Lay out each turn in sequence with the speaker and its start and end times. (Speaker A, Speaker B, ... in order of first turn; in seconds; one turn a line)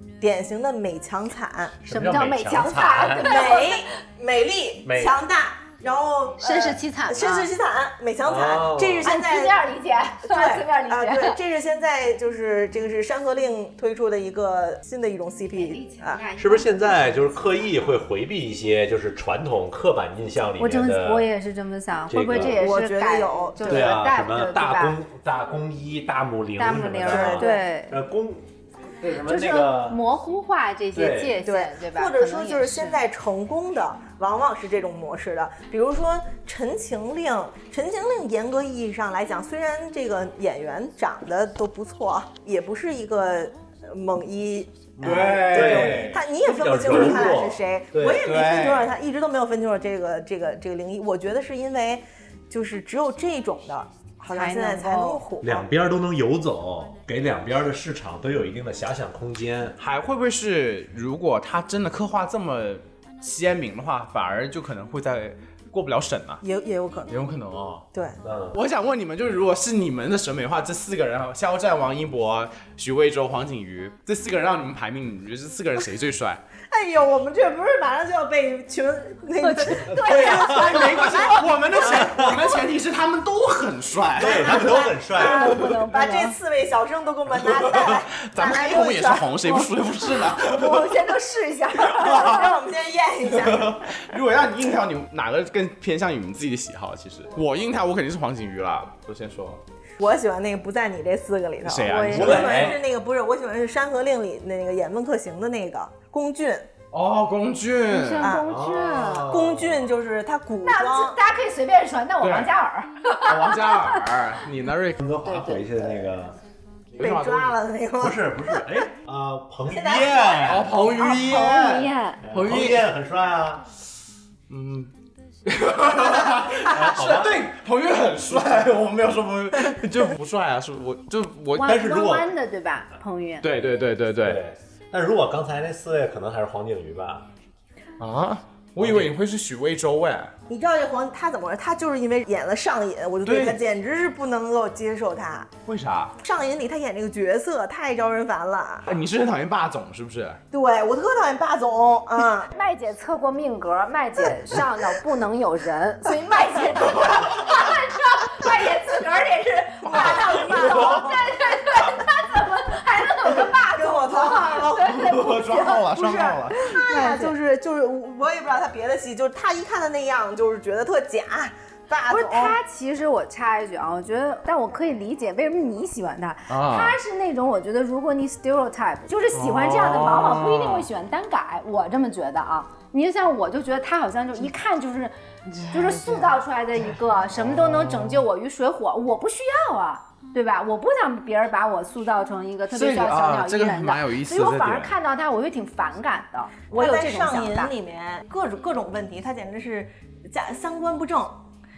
Speaker A: 0.2-1.8
Speaker B: 1.8-3.4
Speaker C: 1.9-3.9
Speaker A: 3.2-9.6
Speaker B: 4.8-5.2
Speaker C: 6.4-7.5
Speaker B: 8.2-9.1
Speaker C: 9.0-11.4
Speaker A: 10.2-16.2
Speaker C: 15.5-17.8
Speaker B: 16.4-21.3
Speaker C: 20.6-25.0
Speaker B: 22.1-22.6
Speaker A: 22.3-24.0
Speaker B: 23.6-30.0
Speaker C: 26.6-28.0
Speaker A: 27.1-27.6
Speaker C: 29.2-33.0
Speaker B: 30.9-31.4
Speaker A: 31.4-55.7
Speaker B: 45.0-48.3
Speaker D: 45.0-46.2
Speaker D: 48.2-48.9
Speaker C: 54.3-55.2
Speaker B: 55.4-59.8
Speaker D: 59.8-66.4
Speaker A: 66.4-67.2
Speaker D: 67.1-67.8
Speaker A: 67.9-68.2
Speaker B: 68.2-68.6
Speaker D: 68.5-76.4
Speaker A: 76.7-82.4
Speaker C: 79.4-81.4
Speaker B: 80.0-80.6
Speaker D: 80.4-84.8
Speaker B: 82.0-82.3
Speaker B: 84.2-85.5
Speaker A: 84.2-89.6
Speaker C: 84.8-86.4
Speaker D: 87.5-90.9
Speaker C: 90.3-92.5
Speaker A: 91.9-94.0
Speaker D: 93.4-99.6
Speaker A: 100.0-106.7
Speaker D: 101.6-102.7
Speaker C: 101.9-102.7
Speaker B: 102.1-102.8
Speaker D: 106.9-108.3
Speaker C: 107.9-109.3
Speaker A: 108.2-111.2
Speaker B: 108.4-109.9
Speaker C: 110.6-114.0
Speaker D: 112.2-112.5
Speaker D: 113.2-115.0
Speaker B: 115.0-116.4
Speaker C: 115.2-116.1
Speaker D: 117.0-117.6
Speaker A: 117.0-118.9
Speaker B: 118.0-120.8
Speaker A: 119.7-121.7
Speaker D: 120.5-122.9
Speaker C: 121.0-122.2
Speaker B: 122.2-123.7
Speaker D: 124.5-124.9
Speaker D: 125.5-131.8
Speaker A: 126.0-126.4
Speaker B: 126.7-127.5
Speaker C: 131.5-133.5
Speaker B: 131.6-132.3
Speaker D: 133.4-134.4
Speaker B: 134.2-137.3
Speaker D: 138.0-140.3
Speaker B: 138.8-139.1
Speaker A: 140.5-145.5
Speaker D: 143.2-143.6
Speaker D: 145.7-146.2
Speaker A: 146.2-149.0
Speaker D: 148.9-150.4
Speaker A: 150.5-152.5
Speaker C: 152.5-165.9
Speaker D: 159.8-161.1
Speaker A: 159.9-161.2
Speaker A: 163.6-164.8
Speaker D: 164.6-166.8
Speaker A: 165.9-172.6
Speaker C: 166.7-167.3
Speaker C: 172.1-185.2
Speaker D: 176.5-177.0
Speaker D: 179.3-180.8
Speaker D: 185.5-186.3
Speaker C: 185.7-197.7
Speaker D: 187.3-188.2
Speaker D: 192.7-194.9
Speaker A: 196.7-201.4